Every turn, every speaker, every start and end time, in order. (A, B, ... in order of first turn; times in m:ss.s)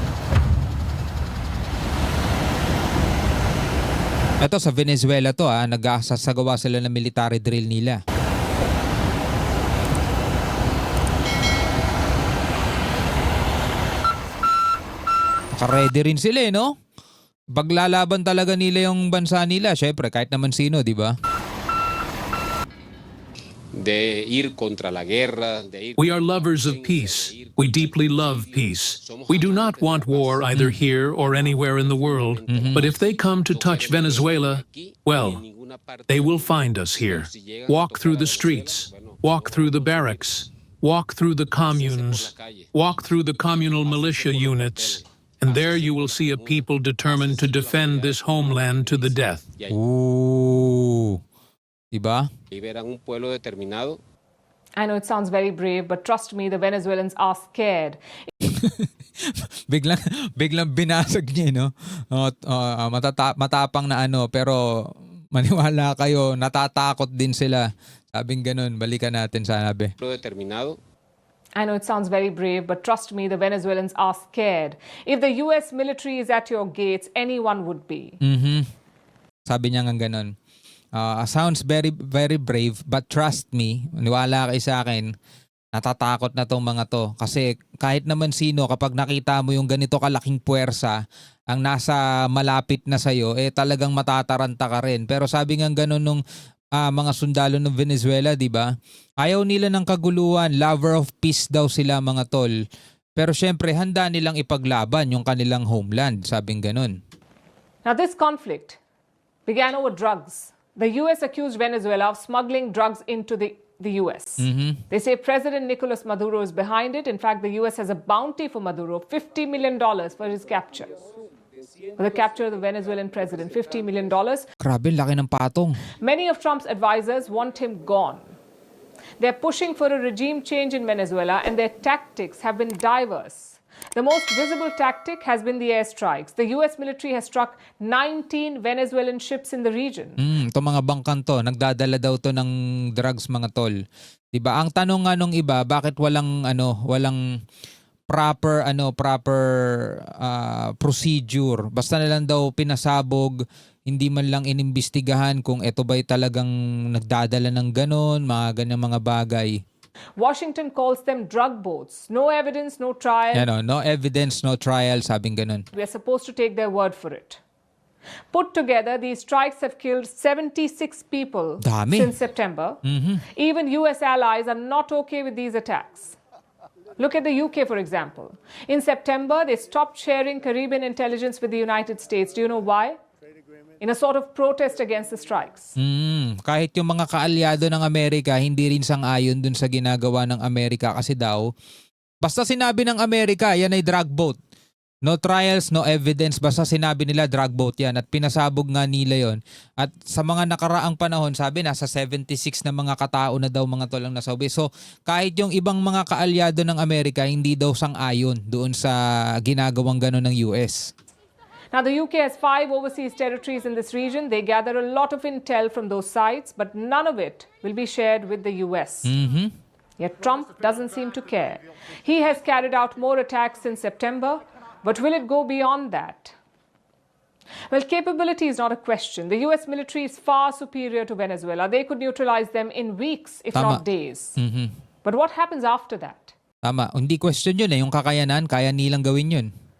0:04.4-0:08.0 A
0:15.5-0:16.7 A
0:17.5-0:21.1 A
0:23.7-0:30.5 B
0:26.0-0:35.4 C
0:30.5-0:30.8 A
0:31.3-0:40.3 B
0:32.5-0:32.8 A
0:36.1-0:49.5 C
0:41.5-0:42.7 B
0:43.5-0:49.8 B
0:49.7-0:51.2 A
0:51.9-0:52.3 A
0:52.5-0:54.0 B
0:54.8-0:58.0 D
0:58.4-1:04.6 A
1:05.3-1:09.9 A
1:10.0-1:10.8 B
1:11.6-1:18.2 D
1:18.2-1:18.7 A
1:19.5-1:20.3 A
1:21.0-1:25.1 A
1:25.7-1:31.0 A
1:31.5-1:36.2 A
1:36.8-1:38.7 A
1:39.2-1:42.5 A
1:43.2-1:47.0 A
1:47.8-1:48.8 D
1:49.4-2:01.0 D
1:54.4-1:54.8 A
2:02.0-2:04.5 D
2:04.6-2:05.9 A
2:06.0-2:08.3 D
2:09.2-2:20.2 D
2:20.2-2:23.8 A
2:24.3-2:27.2 A
2:28.1-2:39.6 A
2:40.2-2:43.5 D
2:43.3-2:45.6 A
2:45.7-2:47.4 D
2:48.3-2:56.2 D
2:51.6-2:52.1 A
2:52.8-2:53.2 A
2:57.0-3:03.0 D
3:03.8-3:05.8 D
3:05.8-3:11.5 A
3:12.2-3:14.4 A
3:15.0-3:30.9 A
3:31.7-3:39.1 D
3:39.0-3:39.5 A
3:40.0-3:46.3 D
3:47.7-3:54.4 D
3:53.5-3:53.8 A
3:54.4-3:54.7 A
3:55.0-3:56.3 D
3:56.6-3:59.5 A